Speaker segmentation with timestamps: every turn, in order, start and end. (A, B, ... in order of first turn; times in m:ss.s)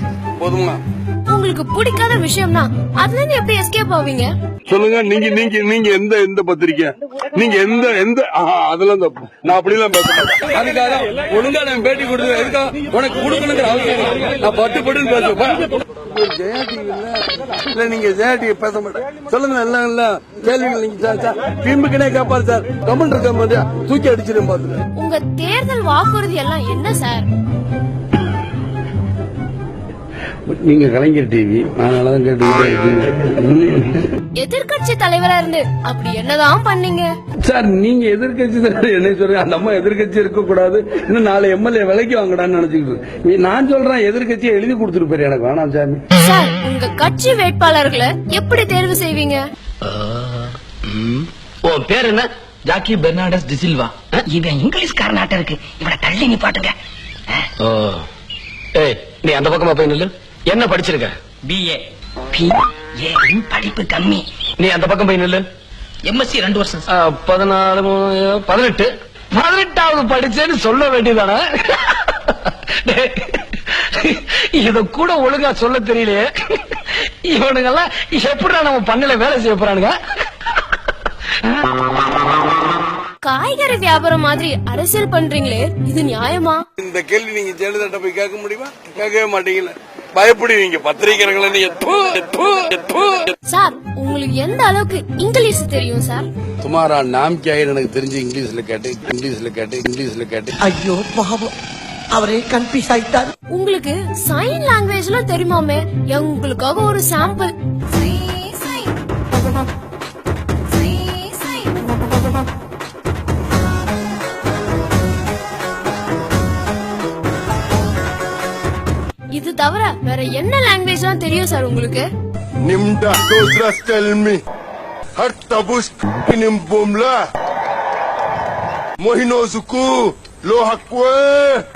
0:00.4-0:00.8 A
0:01.3-0:04.3 B
0:04.7-0:24.8 A
0:25.0-0:27.3 B
0:30.5-0:34.1 A
0:34.4-0:37.1 B
0:37.4-0:46.0 A
0:46.2-0:49.4 B
0:51.1-0:52.2 C
0:54.3-0:56.7 D
0:57.6-0:58.0 C
0:58.8-1:01.1 C
1:01.5-1:04.2 D
1:04.6-1:05.4 C
1:06.0-1:06.8 D
1:06.9-1:19.9 C
1:23.2-1:26.6 B
1:26.8-1:33.3 A
1:33.5-1:36.2 B
1:36.6-1:40.5 A
1:40.6-1:41.5 E
1:42.1-1:43.3 E
1:43.5-1:48.9 B
1:50.7-1:51.7 B
1:59.4-2:02.1 B
2:02.6-2:04.4 F
2:05.2-2:07.2 F
2:09.0-2:11.6 F